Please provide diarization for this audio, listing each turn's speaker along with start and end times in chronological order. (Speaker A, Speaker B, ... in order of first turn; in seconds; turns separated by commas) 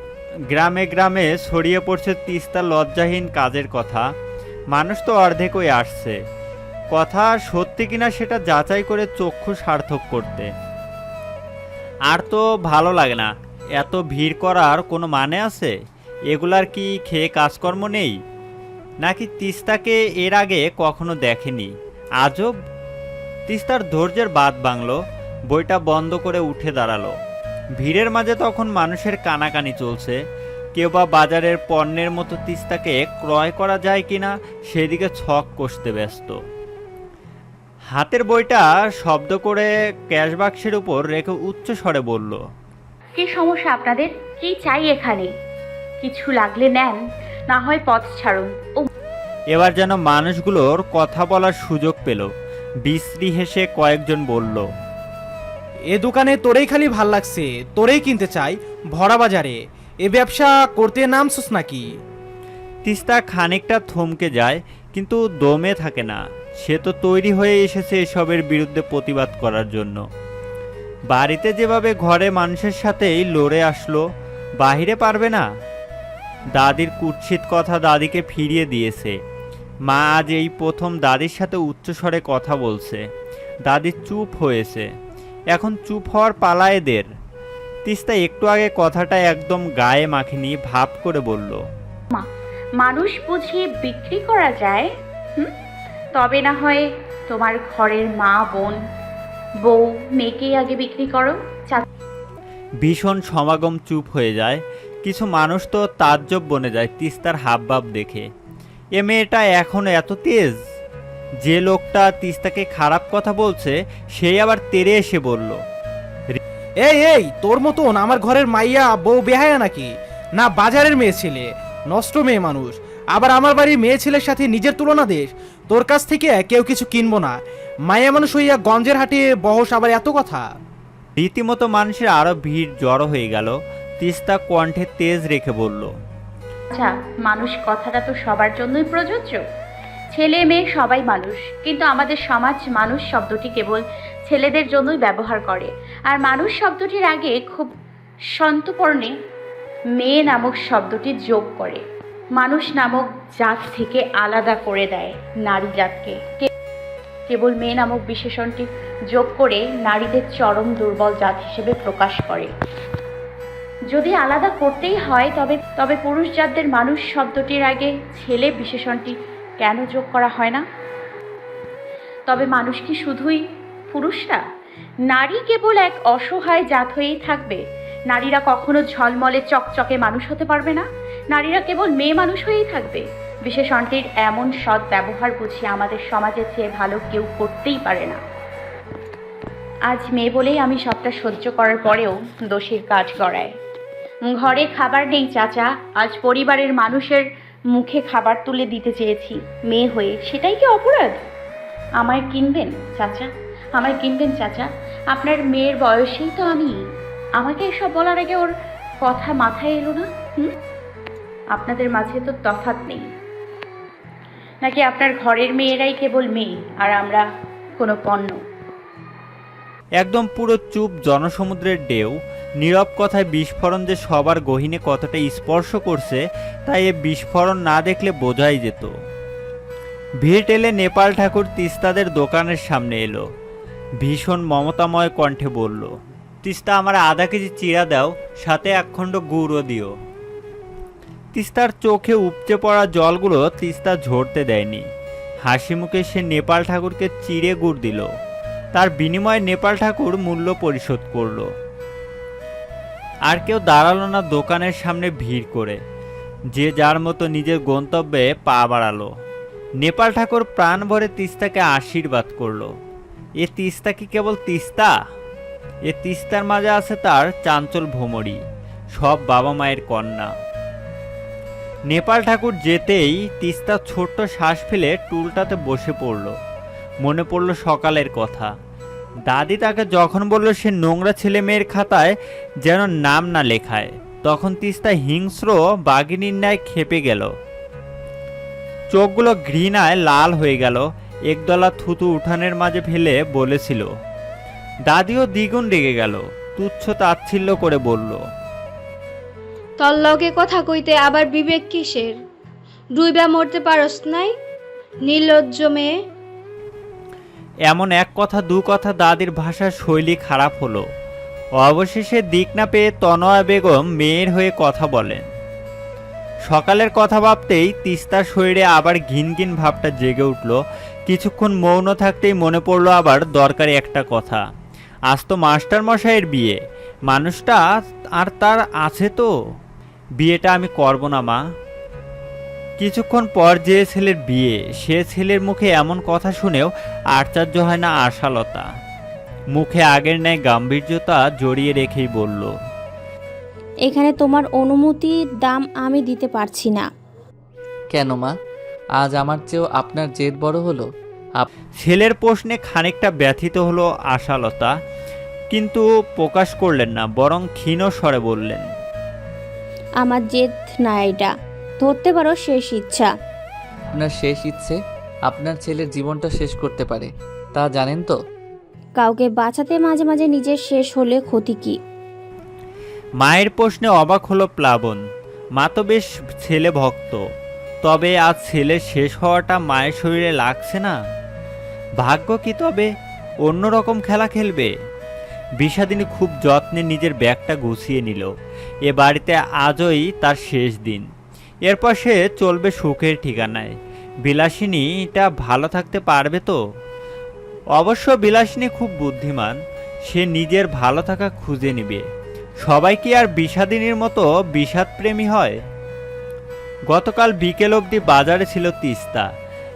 Speaker A: 0.5-4.0, Speaker A: 4.7-6.2, Speaker A: 6.9-10.5, Speaker A: 12.1-15.7, Speaker A: 16.3-18.1, Speaker A: 19.0-22.5, Speaker A: 23.5-25.0, Speaker A: 25.5-27.1, Speaker A: 27.8-30.2, Speaker A: 30.8-36.4, Speaker A: 37.9-42.4, Speaker B: 43.2-45.3, Speaker B: 46.0-47.0, Speaker B: 47.5-48.9, Speaker A: 49.5-52.3, Speaker A: 52.8-54.6, Speaker C: 55.9-61.8, Speaker A: 62.9-70.0, Speaker A: 71.1-74.0, Speaker A: 74.6-75.4, Speaker A: 76.5-79.1, Speaker A: 79.9-83.0, Speaker A: 83.7-84.9, Speaker A: 85.5-87.1, Speaker A: 87.9-91.6, Speaker B: 92.8-95.5, Speaker B: 96.2-98.8, Speaker B: 99.6-101.8, Speaker A: 102.8-108.2, Speaker A: 109.0-110.5, Speaker A: 111.4-115.6, Speaker C: 116.8-127.3, Speaker C: 127.9-130.4, Speaker A: 131.2-135.9, Speaker B: 136.7-139.4, Speaker B: 140.1-147.7, Speaker B: 148.4-149.1, Speaker B: 150.0-151.8, Speaker B: 152.4-156.5, Speaker B: 157.3-162.5, Speaker B: 163.9-170.6, Speaker B: 172.3-173.4, Speaker B: 173.9-174.4, Speaker B: 175.1-188.2, Speaker B: 189.9-193.5, Speaker B: 194.3-201.2, Speaker B: 202.0-206.7, Speaker B: 207.4-208.5, Speaker B: 209.0-210.1, Speaker B: 211.5-213.0, Speaker B: 214.6-217.2, Speaker B: 217.8-218.4, Speaker A: 220.0-228.9, Speaker A: 230.2-233.2, Speaker A: 234.0-235.9, Speaker A: 236.4-239.9, Speaker A: 241.3-244.8, Speaker A: 245.4-248.1, Speaker A: 248.7-251.5, Speaker A: 253.3-255.8, Speaker A: 256.5-259.1, Speaker A: 259.8-262.7, Speaker A: 263.4-264.9, Speaker A: 265.9-268.4, Speaker A: 269.0-270.3, Speaker A: 271.9-276.3, Speaker A: 277.0-278.5, Speaker A: 279.3-282.1, Speaker A: 282.6-287.3, Speaker A: 288.9-293.9, Speaker A: 294.9-298.2, Speaker D: 299.8-302.2, Speaker D: 302.9-304.3, Speaker D: 305.0-305.9, Speaker A: 307.7-310.8, Speaker A: 311.6-315.2, Speaker A: 316.5-320.6, Speaker A: 321.1-324.4, Speaker A: 325.1-326.6, Speaker A: 327.1-327.6, Speaker A: 328.2-329.3, Speaker A: 330.2-331.4, Speaker A: 332.8-338.6, Speaker A: 339.5-342.5, Speaker E: 343.9-346.9, Speaker F: 347.9-348.3, Speaker F: 348.9-351.5, Speaker A: 351.8-354.7, Speaker A: 355.5-358.6, Speaker E: 360.0-363.1, Speaker F: 363.9-368.2, Speaker E: 368.9-371.8, Speaker A: 373.2-375.0, Speaker A: 375.6-377.2, Speaker A: 377.8-380.9, Speaker A: 382.0-382.9, Speaker A: 383.4-384.7, Speaker A: 385.6-388.3, Speaker A: 388.9-391.1, Speaker A: 391.7-393.7, Speaker A: 394.2-396.6, Speaker A: 397.8-399.6, Speaker A: 400.1-402.0, Speaker A: 402.6-405.6, Speaker A: 406.9-409.2